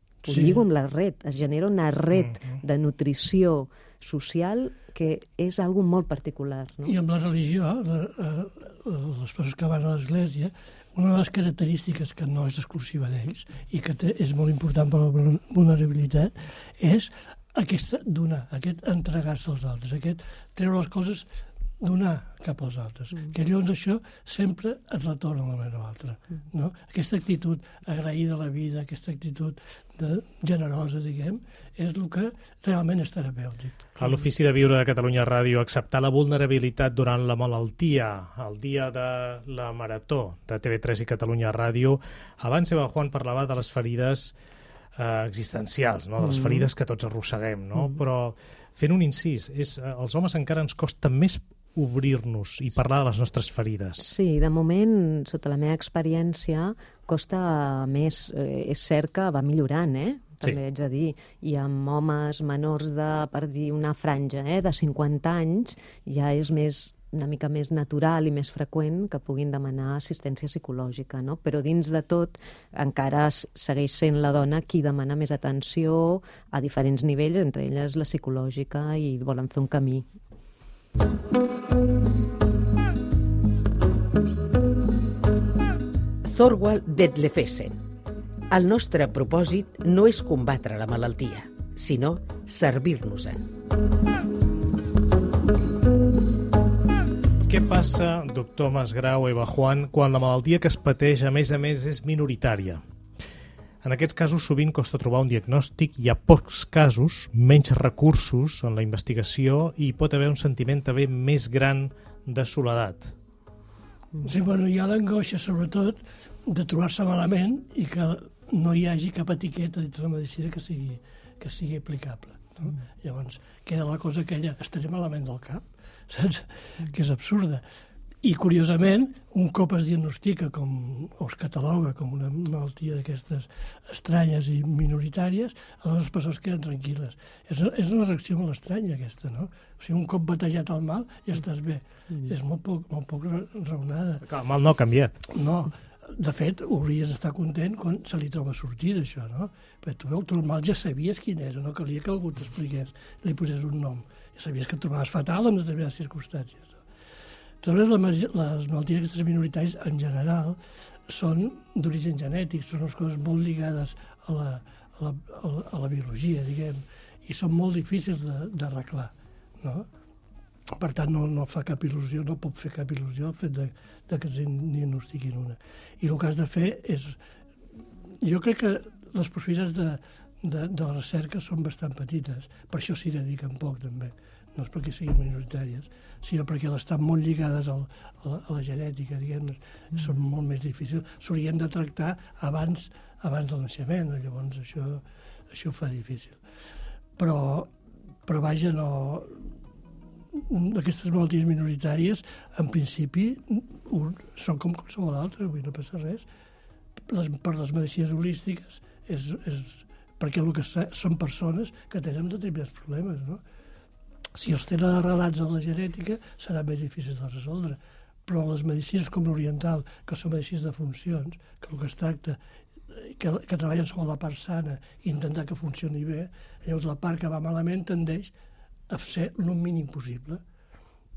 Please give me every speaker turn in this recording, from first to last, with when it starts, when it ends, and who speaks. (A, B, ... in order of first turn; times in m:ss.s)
0:00.2-0:00.6 A
0:00.2-0:06.9 B
0:06.8-0:21.3 A
0:21.8-0:33.8 A
0:34.0-0:44.3 C
0:45.0-0:54.1 C
0:46.2-0:46.7 B
0:54.0-1:20.1 B
1:26.2-1:27.8 D
1:28.5-1:33.5 D
1:37.5-1:42.8 C
1:43.8-1:53.1 C
1:54.2-2:07.6 A
2:08.2-2:24.2 A
2:24.2-2:25.2 C
2:25.3-2:36.8 A
2:37.6-2:49.9 A
2:50.7-2:57.2 A
2:58.2-3:16.4 A
3:17.2-3:17.7 A
3:18.2-3:19.5 A
3:20.3-3:26.2 A
3:27.1-3:33.4 A
3:34.3-3:48.3 A
3:48.9-3:50.4 A